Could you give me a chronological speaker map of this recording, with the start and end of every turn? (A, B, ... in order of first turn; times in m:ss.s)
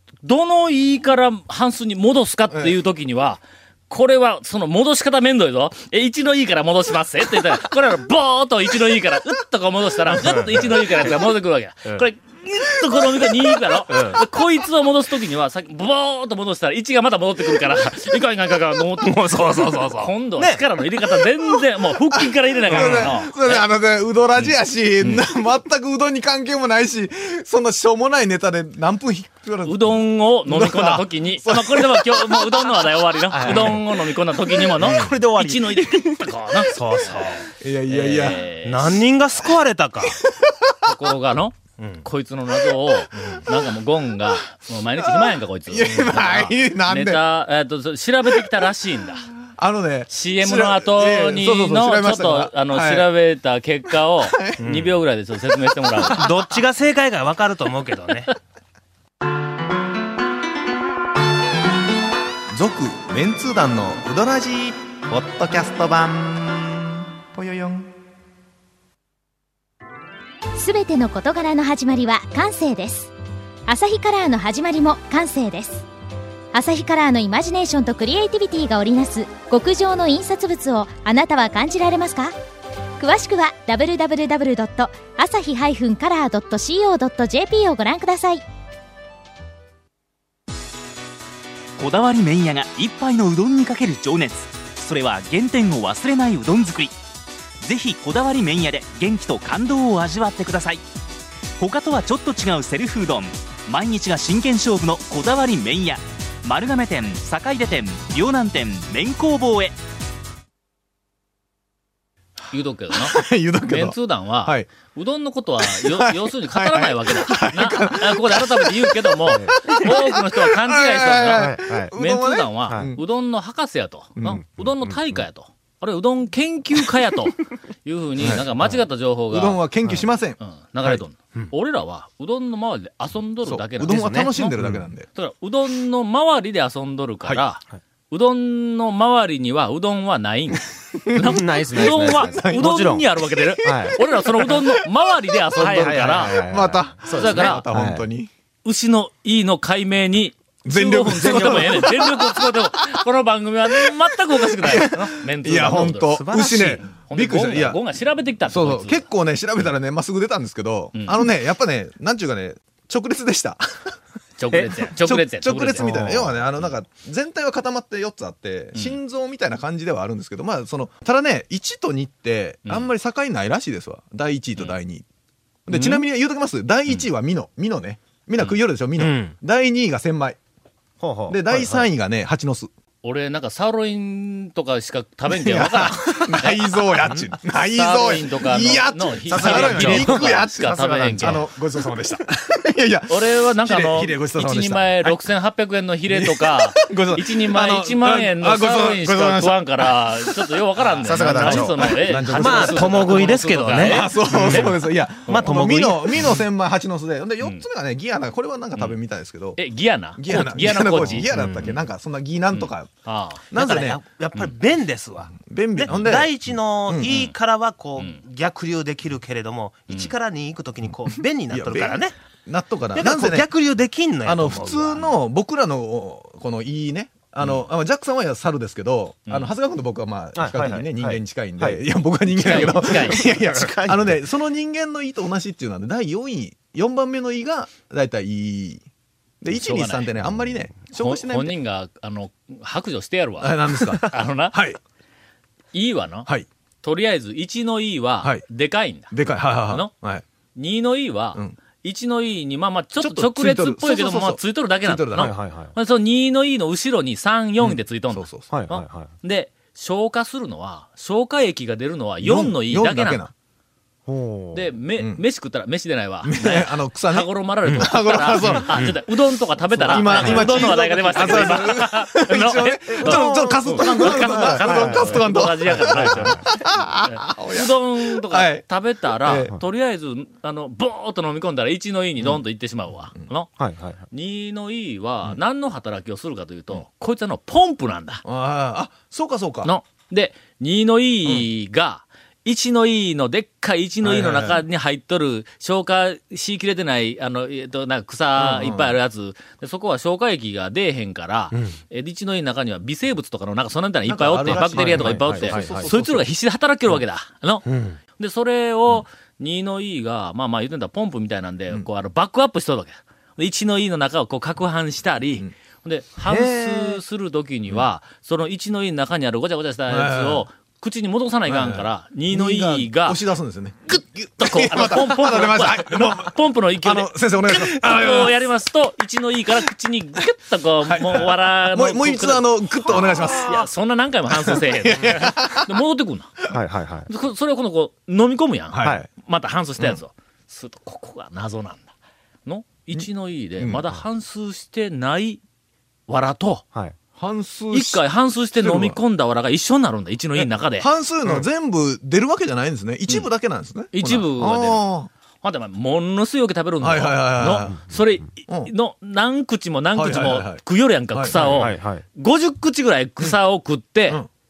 0:00.2-0:19.2 A
0:02.5-0:02.8 B
0:10.1-0:11.1 C
0:13.9-0:14.2 C
0:19.0-0:21.2 C
0:20.0-0:23.7 A
0:22.7-0:32.7 B
0:22.8-0:23.0 C
0:24.4-0:25.2 A
0:29.6-0:37.2 A
0:33.3-0:37.5 C
0:33.5-0:33.8 B
0:37.6-0:38.4 B
0:37.9-0:39.0 A
0:38.6-0:40.2 C
0:40.3-0:40.7 B
0:40.8-0:49.3 A
0:41.8-0:42.0 C
0:45.0-0:47.2 B
0:49.6-0:53.1 B
0:50.1-0:56.3 A
0:54.2-0:54.6 B
0:54.6-0:54.9 C
0:55.5-0:56.1 B
0:56.1-0:58.3 C
1:02.5-1:07.9 B
1:10.6-1:13.1 D
1:13.7-1:15.8 D
1:16.6-1:22.3 D
1:23.0-1:28.4 D
1:31.8-1:36.9 E
1:37.6-1:40.8 E
1:41.6-1:49.8 E
1:52.5-2:09.6 A
1:52.9-1:54.7 B
1:55.6-2:03.0 B
1:59.3-1:59.6 F
2:01.4-2:01.9 F
2:02.7-2:03.0 F
2:04.3-2:05.2 F
2:08.2-2:10.4 B
2:10.4-2:14.6 A
2:10.8-2:11.5 C
2:13.4-2:15.1 B
2:14.6-2:14.8 F
2:15.1-2:26.4 A
2:20.9-2:24.7 B
2:21.3-2:22.6 F
2:23.6-2:24.0 F
2:25.6-2:27.0 F
2:25.8-2:28.3 B
2:27.1-2:27.4 C
2:27.1-2:27.7 A
2:27.7-2:28.1 F
2:28.6-2:36.4 A
2:30.6-2:32.9 B
2:31.2-2:31.5 F
2:34.6-2:37.8 B
2:35.7-2:36.8 C
2:37.0-2:39.1 A
2:38.4-2:43.6 B
2:40.9-2:41.2 A
2:44.4-2:45.9 A
2:45.0-2:55.0 B
2:45.8-2:46.4 F
2:55.7-3:00.4 B
2:55.7-2:56.0 A
2:59.0-2:59.4 C
3:01.0-3:01.4 C
3:01.0-3:01.9 F
3:01.3-3:02.7 B
3:03.0-3:07.2 A
3:05.3-3:15.3 B
3:07.7-3:11.5 A
3:09.3-3:11.4 F
3:13.1-3:24.7 A
3:16.1-3:20.3 B
3:21.0-3:29.6 B
3:21.0-3:26.4 C
3:29.6-3:31.8 A
3:30.2-3:33.0 B
3:31.3-3:31.8 C
3:32.5-3:33.4 A
3:33.5-3:34.0 B
3:33.5-3:42.2 C
3:35.4-3:36.3 B
3:41.5-3:43.5 B
3:42.9-3:45.2 C
3:44.2-3:58.8 B
3:49.3-3:49.5 A
3:50.4-3:51.9 F
3:52.4-3:53.2 A
3:52.4-3:54.2 F
3:59.4-4:01.6 B
3:59.5-4:00.1 A
4:01.0-4:04.6 A
4:03.4-4:04.8 B
4:05.7-4:06.3 A
4:06.8-4:09.9 A
4:08.2-4:10.2 B
4:10.6-4:23.2 A
4:13.0-4:15.3 B
4:15.2-4:15.8 F
4:17.6-4:18.5 B
4:18.5-4:19.1 F
4:22.2-4:23.3 B
4:24.1-4:24.8 F
4:24.5-4:43.5 A
4:25.0-4:25.2 B
4:26.2-4:28.8 B
4:29.7-4:39.5 B
4:31.3-4:31.6 C
4:32.9-4:36.4 F
4:43.0-4:43.3 B
4:43.6-4:44.0 F
4:44.1-4:48.2 A
4:48.2-4:49.7 B
4:49.6-5:23.2 A
4:54.0-4:54.6 B
4:58.4-4:59.0 B
5:04.1-5:06.3 B
5:04.5-5:05.8 C
5:05.1-5:05.8 F
5:07.6-5:08.0 C
5:16.3-5:17.0 F
5:19.9-5:20.5 B
5:21.5-5:28.4 B
5:24.4-5:36.5 A
5:30.9-5:33.7 B
5:34.3-5:35.7 B
5:36.5-5:37.1 F
5:37.1-5:41.9 A
5:38.7-5:39.1 B
5:42.4-5:45.4 A
5:43.6-5:43.8 B
5:46.1-5:46.6 A
5:47.2-5:49.0 B
5:47.7-5:50.9 A
5:50.4-5:55.1 B
5:53.9-5:54.9 A
5:55.4-6:04.2 A
5:56.8-5:57.8 B
5:59.9-6:01.7 B
6:01.4-6:02.0 F